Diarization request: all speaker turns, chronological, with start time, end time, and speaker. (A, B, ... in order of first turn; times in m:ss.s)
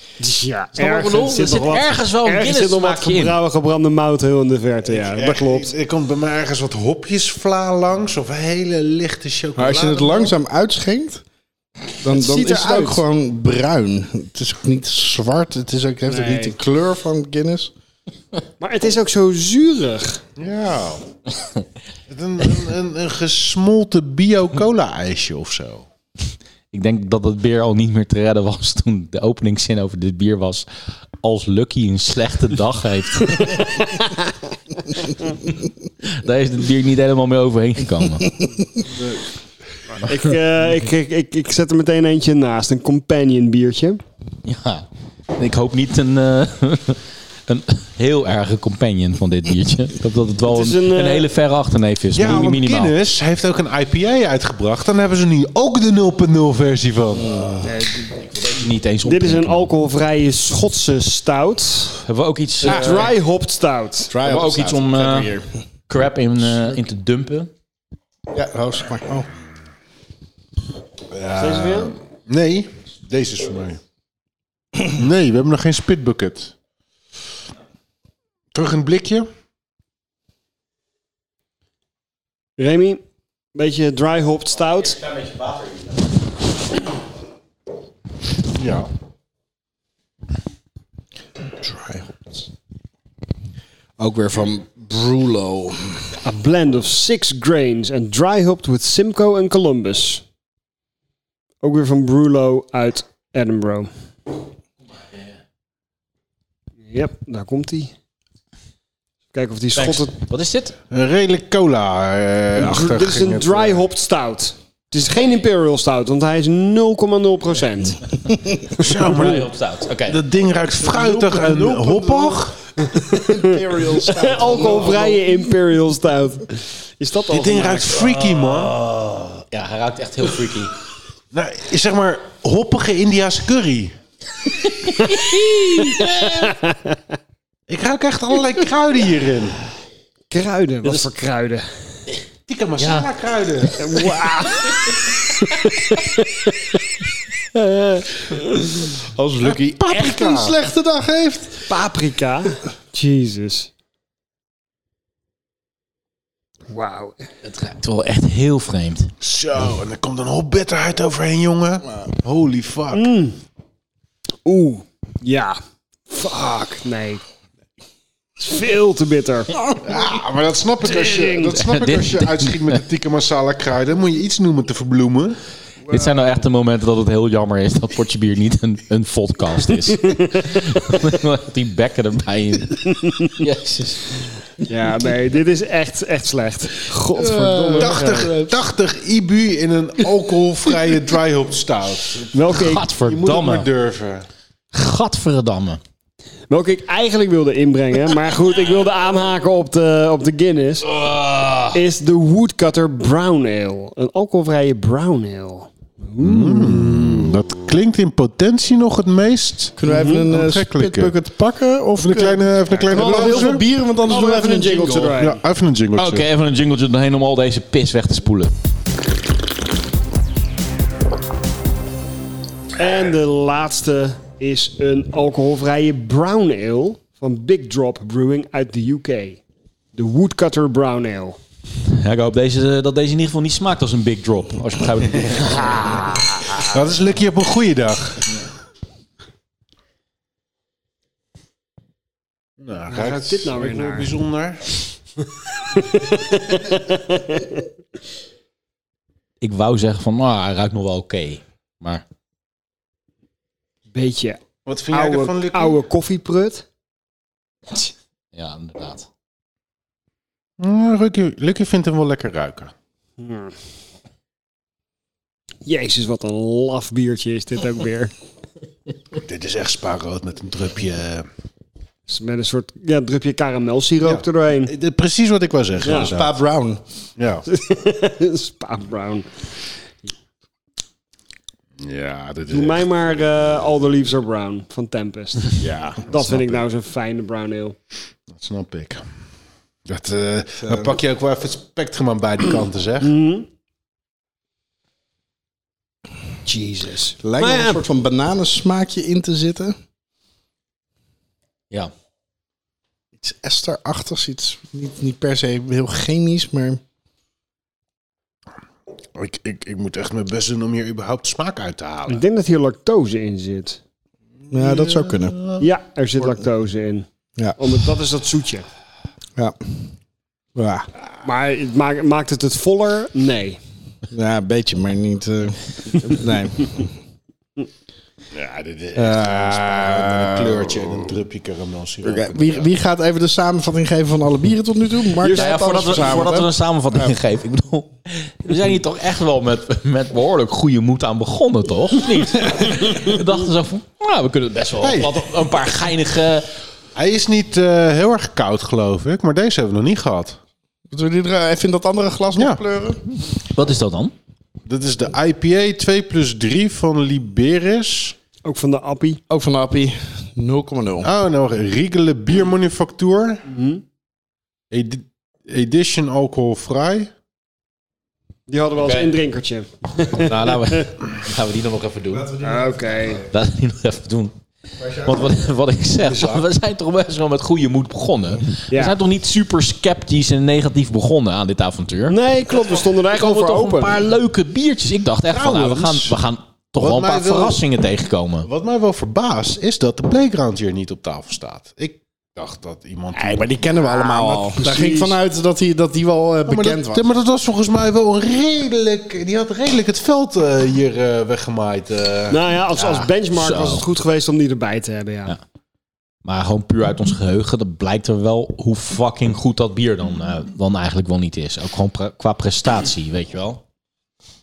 0:00.2-0:05.7 A
0:00.8-0:03.4 B
0:04.9-0:10.3 C
0:09.6-0:11.2 D
0:12.0-0:17.7 D
0:12.1-0:13.0 A
0:16.1-0:16.6 A
0:18.6-0:20.2 A
0:20.4-0:21.0 C
0:22.1-0:25.9 C
0:26.7-0:30.7 B
0:31.2-0:33.6 B
0:36.0-0:38.3 B
0:38.8-0:39.2 C
0:40.0-0:44.0 A
0:44.4-0:52.9 B
0:50.4-0:51.3 A
0:52.1-0:57.5 C
0:57.2-0:57.6 D
0:57.6-0:58.0 A
0:58.2-0:59.7 B
0:59.0-1:02.0 A
1:02.1-1:03.1 B
1:02.6-1:04.1 A
1:02.7-1:03.0 D
1:04.1-1:05.5 D
1:04.2-1:05.3 B
1:05.9-1:07.5 B
1:08.3-1:09.3 D
1:11.1-1:13.8 C
1:11.4-1:11.9 A
1:14.8-1:16.5 C
1:18.5-1:19.3 C
1:22.6-1:23.0 A
1:23.5-1:25.0 A
1:24.8-1:26.0 B
1:28.5-1:28.9 C
1:31.6-1:32.1 D
1:34.0-1:36.1 D
1:36.2-1:40.2 A
1:41.6-1:43.9 A
1:46.9-1:47.9 A
1:49.3-1:50.1 A
1:49.7-1:50.7 B
1:50.9-1:53.8 C
1:52.6-1:58.0 A
1:58.7-1:59.5 C
1:58.9-2:00.2 B
2:00.1-2:02.6 C
2:00.8-2:05.4 D
2:02.9-2:08.2 A
2:07.3-2:08.8 C
2:08.2-2:10.8 B
2:11.3-2:13.9 C
2:14.6-2:16.5 B
2:15.8-2:17.0 A
2:17.7-2:19.6 C
2:20.3-2:21.6 A
2:22.5-2:24.2 C
2:22.8-2:23.1 B
2:23.8-2:26.8 A
2:27.5-2:28.8 A
2:29.0-2:31.7 D
2:29.4-2:30.6 C
2:31.7-2:33.7 A
2:36.7-2:37.2 A
2:37.4-2:39.1 B
2:39.2-2:43.1 C
2:42.9-2:43.4 A
2:44.4-2:47.2 A
2:48.4-2:49.5 A
2:49.7-2:55.4 C
2:50.8-2:51.6 A
2:51.5-2:52.8 B
2:55.9-2:56.3 A
2:55.9-3:04.1 B
3:00.0-3:00.6 A
3:04.6-3:08.3 A
3:07.1-3:08.5 D
3:07.8-3:12.4 C
3:12.3-3:12.9 A
3:12.5-3:13.7 B
3:13.0-3:14.3 C
3:14.7-3:15.8 B
3:16.5-3:20.9 A
3:20.8-3:21.8 B
3:21.7-3:26.8 A
3:26.2-3:31.1 C
3:29.8-3:35.2 D
3:29.8-3:30.3 A
3:32.0-3:33.6 C
3:32.8-3:35.4 A
3:35.1-3:36.2 C
3:36.0-3:38.5 B
3:42.8-3:49.4 A
3:49.9-3:51.4 A
3:51.8-3:56.1 B
3:55.7-3:56.6 A
3:56.6-3:58.3 C
4:02.6-4:04.8 C
4:02.9-4:04.1 A
4:05.7-4:07.6 A
4:09.4-4:12.0 B
4:13.9-4:16.6 A
4:14.6-4:15.8 C
4:18.3-4:19.1 B
4:20.6-4:22.7 C
4:23.2-4:23.5 A
4:25.6-4:28.1 A
4:29.2-4:31.3 C
4:32.1-4:34.7 A
4:34.0-4:36.4 C
4:35.8-4:36.1 A
4:35.8-4:36.8 D
4:37.2-4:37.4 C
4:37.5-4:39.3 A
4:41.8-4:42.9 C
4:42.5-4:47.8 A
4:45.6-4:46.4 C
4:48.3-4:49.0 C
4:49.9-4:53.2 C
4:50.6-4:51.0 D
4:53.0-4:53.4 A
4:56.4-4:57.8 A
4:57.2-4:59.7 D
5:03.2-5:06.8 D
5:09.1-5:12.2 C
5:12.1-5:13.8 A
5:14.4-5:15.6 C
5:14.5-5:15.4 D
5:15.6-5:17.0 A
5:17.6-5:18.7 A
5:19.4-5:19.9 D
5:20.5-5:20.9 D
5:21.2-5:23.6 A
5:24.1-5:26.9 D
5:28.3-5:32.7 C
5:28.9-5:30.9 D
5:32.0-5:37.1 D
5:35.2-5:46.5 B
5:35.2-5:36.2 A
5:44.8-5:45.2 C
5:46.9-5:50.4 C
5:50.9-5:53.0 D
5:53.5-5:54.1 B
5:54.6-5:58.2 C
5:58.4-5:59.2 A
5:59.3-6:01.1 D
6:01.0-6:03.4 C
6:03.5-6:03.8 A
6:04.7-6:07.1 C
6:08.5-6:10.9 A
6:08.8-6:09.1 B
6:10.1-6:12.3 B
6:12.1-6:13.2 D
6:12.4-6:13.2 A
6:13.3-6:14.3 B
6:14.8-6:15.3 D
6:14.9-6:22.2 B
6:18.7-6:19.0 A
6:22.1-6:24.0 A
6:22.8-6:28.5 B
6:25.3-6:26.2 C
6:26.8-6:27.6 C
6:28.4-6:33.8 C
6:33.1-6:37.0 D
6:34.1-6:35.2 A
6:36.5-6:42.4 C
6:42.3-6:45.3 A
6:42.8-6:43.8 B
6:46.2-6:53.6 B